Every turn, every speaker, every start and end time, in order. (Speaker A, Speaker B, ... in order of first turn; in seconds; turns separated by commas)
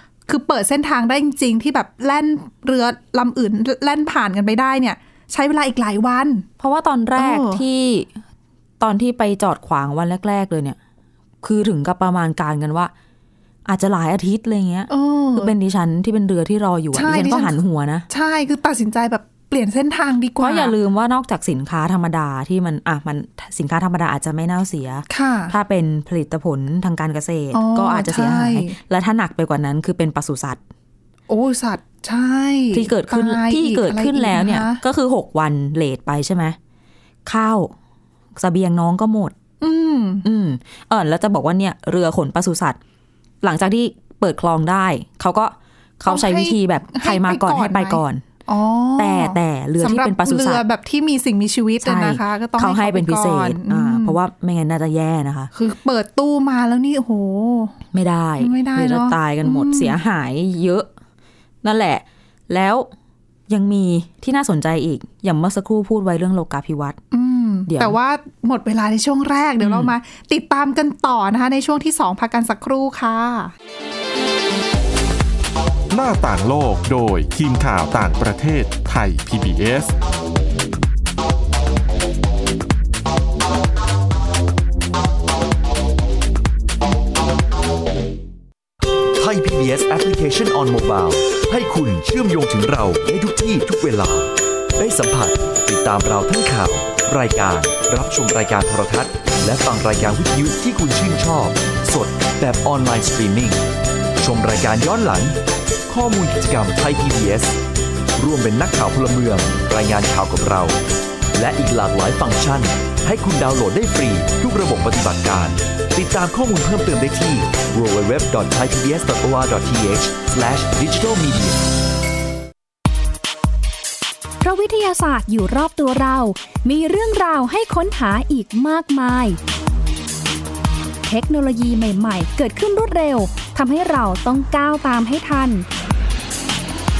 Speaker A: 0.3-6.5, Speaker B: 6.6-8.2, Speaker A: 7.2-7.6, Speaker B: 8.8-10.8, Speaker B: 11.4-12.9, Speaker B: 13.7-18.1, Speaker A: 14.9-15.5, Speaker A: 16.9-17.6, Speaker A: 18.1-20.7, Speaker B: 20.4-30.6, Speaker A: 25.1-25.5, Speaker A: 27.5-28.8, Speaker A: 31.3-34.8, Speaker B: 32.7-36.6, Speaker B: 37.2-37.7, Speaker B: 38.4-39.3, Speaker A: 39.6-40.2, Speaker B: 40.2-42.8, Speaker B: 43.4-48.2, Speaker A: 46.1-54.2, Speaker B: 49.0-50.6, Speaker B: 51.8-55.5, Speaker A: 55.5-57.8, Speaker B: 57.9-60.9, Speaker A: 58.4-60.0, Speaker B: 61.6-62.9, Speaker B: 63.5-67.0, Speaker A: 67.1-73.5, Speaker B: 67.7-68.0, Speaker B: 69.6-69.9, Speaker C: 75.9-79.9, Speaker D: 89.1-103.6, Speaker D: 104.2-105.4, Speaker D: 105.9-107.6, Speaker D: 108.2-110.8, Speaker D: 111.3-121.6, Speaker E: 124.4-129.4, Speaker E: 131.1-135.7